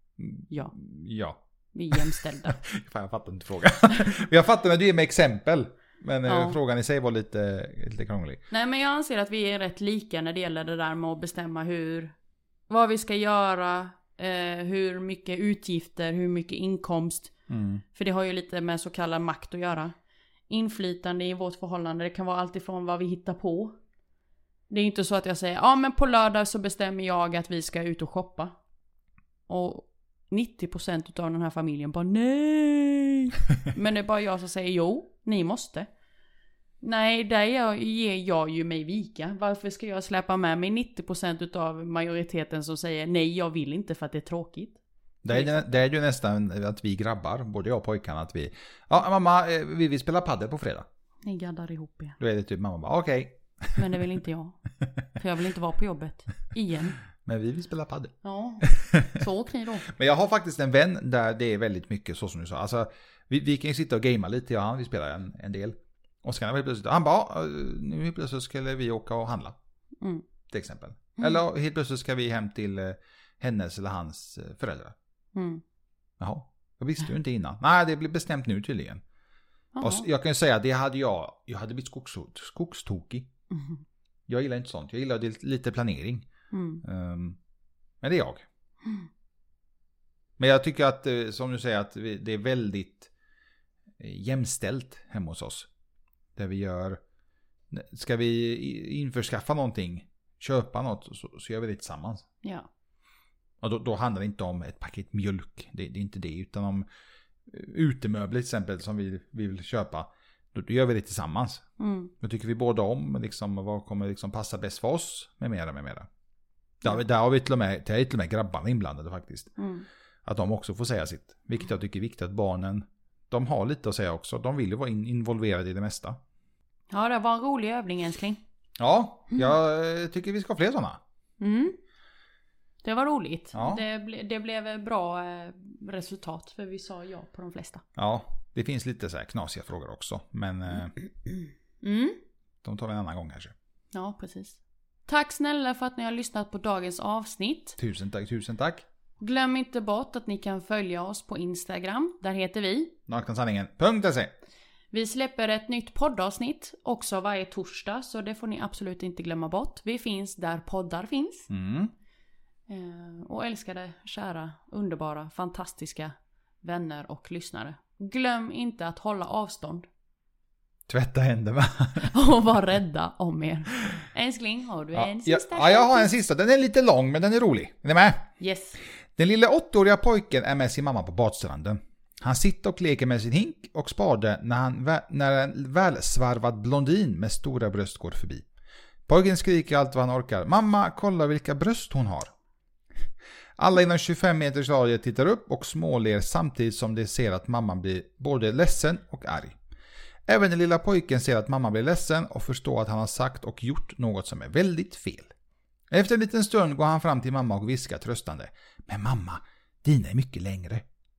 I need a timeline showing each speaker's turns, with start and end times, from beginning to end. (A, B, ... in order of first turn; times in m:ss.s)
0:00.2-0:01.4 A
0:01.7-0:02.6 B
0:01.9-0:08.4 A
0:06.2-0:06.6 B
0:08.5-0:12.1 B
0:12.7-0:17.3 B
0:17.5-0:17.8 A
0:17.9-0:19.9 B
0:20.5-0:23.8 B
0:24.7-0:28.6 B
0:29.5-0:35.9 B
0:36.8-0:45.6 B
0:45.2-0:50.8 A
0:51.2-0:52.2 B
0:52.2-0:53.8 A
0:53.8-0:54.6 B
0:55.2-0:57.0 B
0:57.2-0:59.2 A
0:58.2-0:59.9 B
0:59.8-1:09.6 A
1:10.5-1:14.9 A
1:15.3-1:15.6 B
1:16.2-1:19.0 A
1:19.7-1:20.1 B
1:19.8-1:23.3 A
1:23.5-1:23.8 B
1:24.3-1:26.3 A
1:26.5-1:26.8 B
1:26.8-1:27.4 A
1:28.0-1:28.4 A
1:30.4-1:33.1 A
1:34.0-1:35.7 A
1:36.4-1:37.0 A
1:37.7-1:42.2 A
1:42.4-1:42.7 B
1:43.6-1:46.8 A
1:47.5-1:51.6 A
1:51.8-1:52.1 B
1:52.2-1:56.0 A
1:56.8-1:59.6 A
1:59.6-1:59.9 B
2:00.2-2:06.2 A
2:06.9-2:08.4 B
2:08.8-2:11.0 A
2:11.4-2:11.8 B
2:12.8-2:17.8 B
2:13.5-2:13.8 A
2:18.0-2:21.0 A
2:21.8-2:22.2 B
2:22.6-2:23.5 A
2:23.9-2:27.8 B
2:27.8-2:28.8 A
2:29.2-2:32.9 B
2:33.1-2:34.3 A
2:34.9-2:41.5 B
2:41.5-2:41.9 A
2:42.7-2:49.9 B
2:50.9-2:52.1 A
2:52.0-2:56.1 B
2:54.9-2:58.2 A
2:58.4-2:58.8 B
2:59.2-3:08.4 A
3:09.1-3:12.3 A
3:13.6-3:19.6 A
3:20.3-3:25.3 A
3:25.9-3:30.8 A